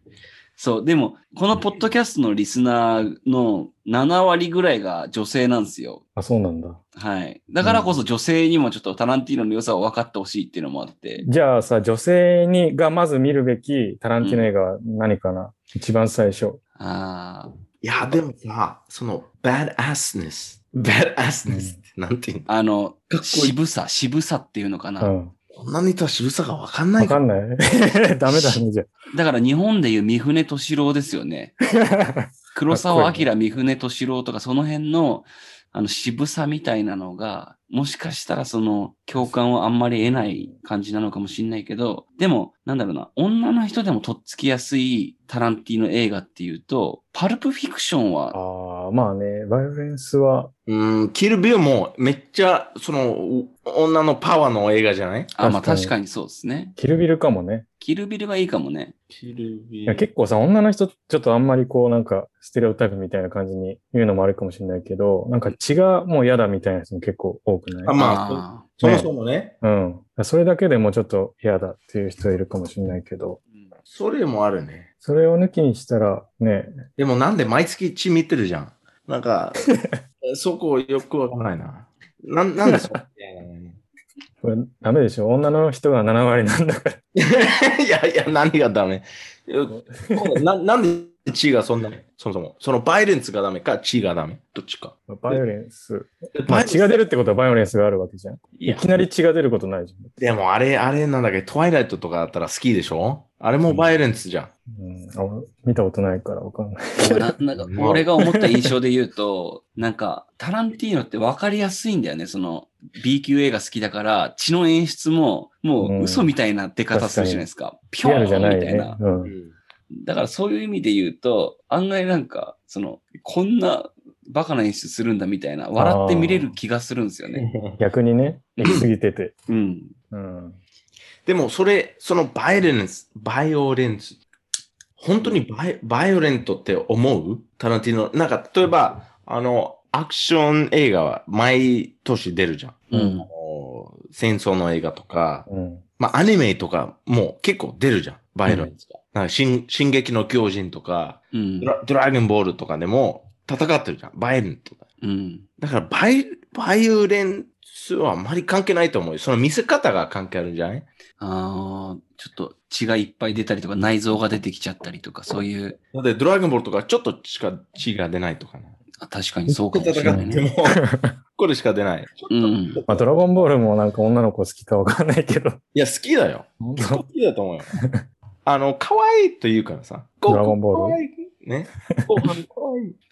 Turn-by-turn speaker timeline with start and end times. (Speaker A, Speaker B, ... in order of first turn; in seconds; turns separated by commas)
Speaker A: 0.6-6.0, Speaker B: 6.2-6.8, Speaker A: 7.0-11.2, Speaker B: 7.6-8.0, Speaker B: 11.2-16.6, Speaker A: 14.2-14.5, Speaker A: 16.8-17.5, Speaker C: 17.8-22.5, Speaker B: 21.4-21.8, Speaker A: 22.5-25.1, Speaker C: 23.1-23.6, Speaker B: 25.0-25.3, Speaker C: 25.5-27.2, Speaker B: 27.0-28.9, Speaker A: 28.3-28.6, Speaker A: 29.1-31.6, Speaker B: 31.8-33.3, Speaker A: 32.5-48.4, Speaker B: 48.3-50.5, Speaker C: 50.7-55.4, Speaker A: 55.4-56.8, Speaker B: 55.4-55.9, Speaker B: 56.8-57.7, Speaker A: 57.8-58.9, Speaker C: 59.1-60.1, Speaker B: 59.9-68.0, Speaker C: 67.8-69.6, Speaker A: 68.0-68.7, Speaker B: 68.8-69.1, Speaker B: 69.6-73.4, Speaker C: 73.9-74.9, Speaker B: 75.0-76.8, Speaker C: 77.0-79.7, Speaker B: 79.7-80.0, Speaker C: 80.3-83.8, Speaker B: 84.4-87.0, Speaker C: 87.2-95.4, Speaker B: 89.7-90.4, Speaker B: 95.1-100.1, Speaker C: 96.3-96.9, Speaker C: 98.5-98.9, Speaker C: 100.2-104.5, Speaker B: 104.7-107.3, Speaker A: 107.0-119.0, Speaker C: 107.7-108.1, Speaker B: 108.2-108.5, Speaker B: 115.8-116.3, Speaker B: 116.9-117.5, Speaker B: 118.0-119.3, Speaker C: 119.2-119.5, Speaker A: 120.0-127.4, Speaker B: 125.8-126.5, Speaker C: 127.3-127.8, Speaker B: 127.8-129.3, Speaker A: 128.6-128.9, Speaker A: 129.5-129.9, Speaker B: 130.1-130.6, Speaker C: 131.3-134.2, Speaker C: 135.0-145.5, Speaker A: 142.9-143.3, Speaker B: 145.5-145.8, Speaker C: 146.0-154.9, Speaker A: 151.3-151.7, Speaker A: 155.0-155.4, Speaker C: 155.6-160.9, Speaker A: 161.2-165.8, Speaker C: 165.9-168.8, Speaker A: 169.0-170.4, Speaker B: 169.5-171.1, Speaker C: 169.7-170.8, Speaker C: 171.4-173.1, Speaker A: 172.3-172.8, Speaker B: 172.9-175.6, Speaker C: 175.7-177.8, Speaker B: 176.6-177.1, Speaker B: 177.7-178.0, Speaker C: 178.4-182.9, Speaker B: 180.3-181.0, Speaker B: 181.9-182.3